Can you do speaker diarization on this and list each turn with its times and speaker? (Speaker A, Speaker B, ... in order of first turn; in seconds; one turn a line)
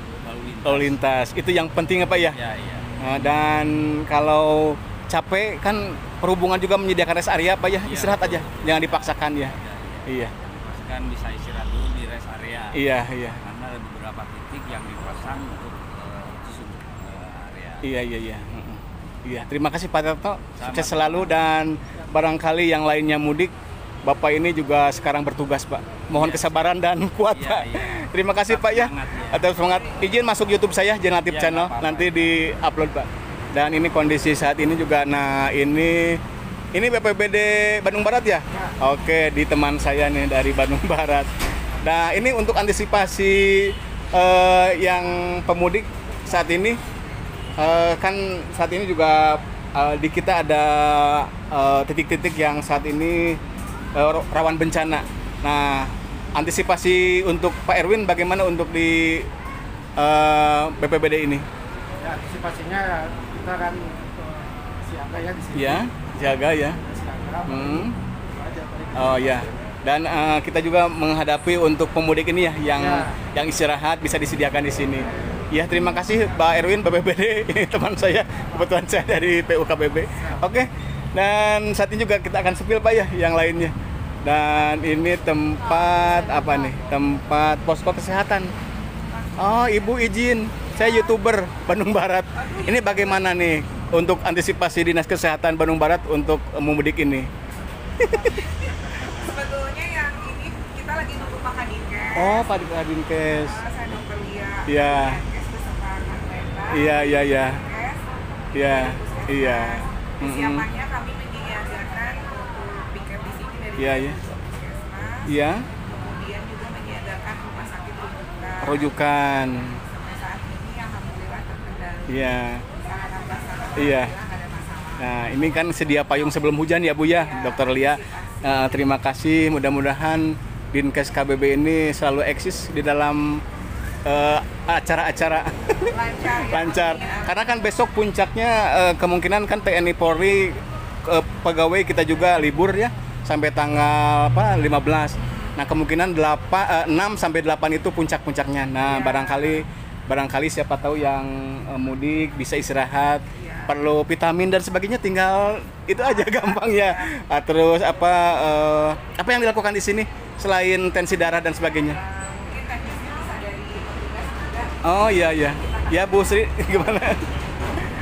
Speaker A: 0.2-0.9
Speaker B: 0.6-2.4
Speaker A: 2.1-2.9
Speaker B: 3.0-9.5
Speaker A: 7.8-12.9
Speaker B: 10.1-10.3
Speaker B: 12.7-13.4
Speaker A: 13.4-17.9
Speaker B: 17.8-23.5
Speaker A: 20.6-21.3
Speaker B: 24.0-36.2
Speaker A: 26.1-26.7
Speaker A: 27.3-29.5
Speaker A: 31.3-32.3
Speaker B: 36.7-41.3
Speaker B: 41.8-46.8
Speaker B: 47.6-53.4
Speaker B: 53.9-59.3
Speaker B: 60.0-61.4
Speaker C: 62.0-64.1
Speaker C: 64.8-65.7
Speaker B: 65.5-66.8
Speaker C: 66.9-67.4
Speaker B: 67.5-68.0
Speaker C: 68.5-68.9
Speaker B: 68.9-88.5
Speaker B: 89.4-97.3
Speaker D: 92.5-93.2
Speaker B: 98.0-98.5
Speaker D: 99.3-102.5
Speaker B: 102.1-103.6
Speaker D: 103.5-108.0
Speaker B: 104.7-105.2
Speaker B: 106.7-107.6
Speaker B: 108.5-110.7
Speaker D: 108.6-115.3
Speaker B: 113.8-114.2
Speaker B: 115.2-115.7
Speaker D: 115.8-119.1
Speaker B: 118.6-119.8
Speaker D: 119.7-122.1
Speaker B: 122.1-122.7
Speaker D: 122.8-125.0
Speaker B: 123.7-124.1
Speaker B: 125.0-133.4
Speaker D: 127.3-128.0
Speaker B: 134.0-162.0
Speaker D: 136.0-137.2
Speaker D: 149.1-149.4
Speaker D: 162.0-164.7
Speaker B: 164.8-167.3
Speaker D: 165.6-166.1